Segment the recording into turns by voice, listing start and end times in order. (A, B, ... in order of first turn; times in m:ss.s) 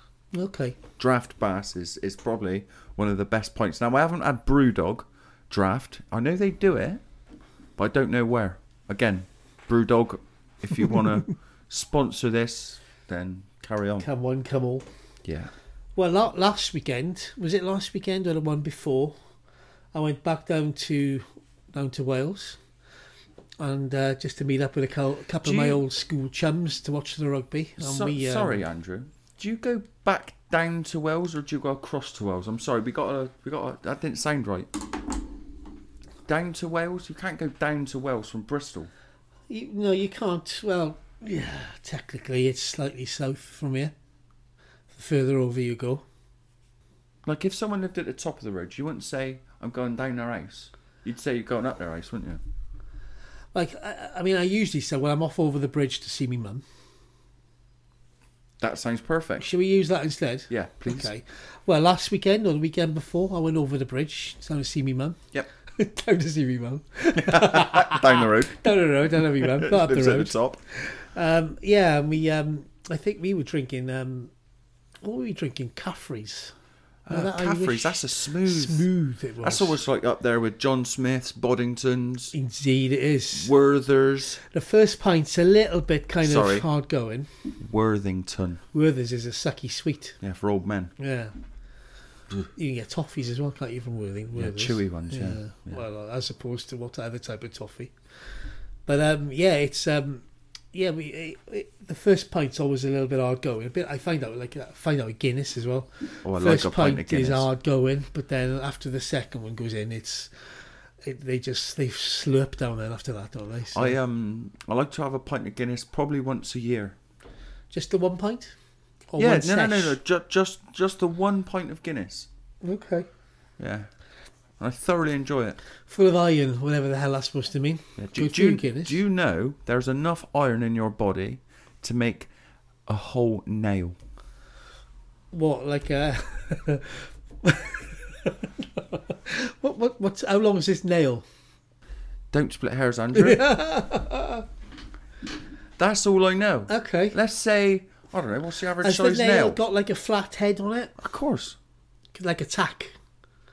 0:00.3-0:00.8 A
0:01.0-0:07.0 B
0:07.8-0:14.1 B
0:14.0-0:14.9 A
0:15.2-0:15.5 B
0:16.0-0:19.2 A
0:19.9-0:22.6 A
0:23.6-0:28.6 A
0:25.4-0:25.8 B
0:27.8-0:34.7 B
0:36.3-0:38.9 B
0:39.5-0:43.9 A
0:44.9-0:46.0 A
0:47.2-0:52.4 B
0:53.5-0:56.6 A
0:58.6-0:59.5 B
0:59.4-1:05.2 A
1:00.5-1:01.1 B
1:05.8-1:14.3 A
1:07.2-1:10.6 B
1:15.0-1:16.5 A
1:17.1-1:18.9 B
1:17.1-1:19.8 A
1:19.4-1:22.3 B
1:22.3-1:23.5 A
1:23.3-1:24.4 B
1:24.5-1:27.3 A
1:26.2-1:26.7 B
1:27.6-1:28.6 B
1:28.7-1:30.2 A
1:30.2-1:30.9 B
1:31.0-1:31.3 A
1:32.6-1:37.9 A
1:34.4-1:35.8 B
1:38.9-1:54.0 A
1:46.2-1:47.5 B
1:53.7-1:57.0 B
1:57.7-1:58.5 A
1:59.1-2:00.0 A
1:59.2-2:02.3 B
2:02.6-2:03.1 A
2:03.6-2:03.9 B
2:04.6-2:05.6 B
2:05.9-2:09.0 A
2:08.0-2:12.3 B
2:12.9-2:14.0 B
2:15.3-2:21.2 A
2:22.3-2:23.4 B
2:23.1-2:24.4 A
2:25.8-2:29.6 B
2:26.7-2:27.2 A
2:28.8-2:30.9 A
2:31.0-2:31.6 B
2:32.1-2:32.9 A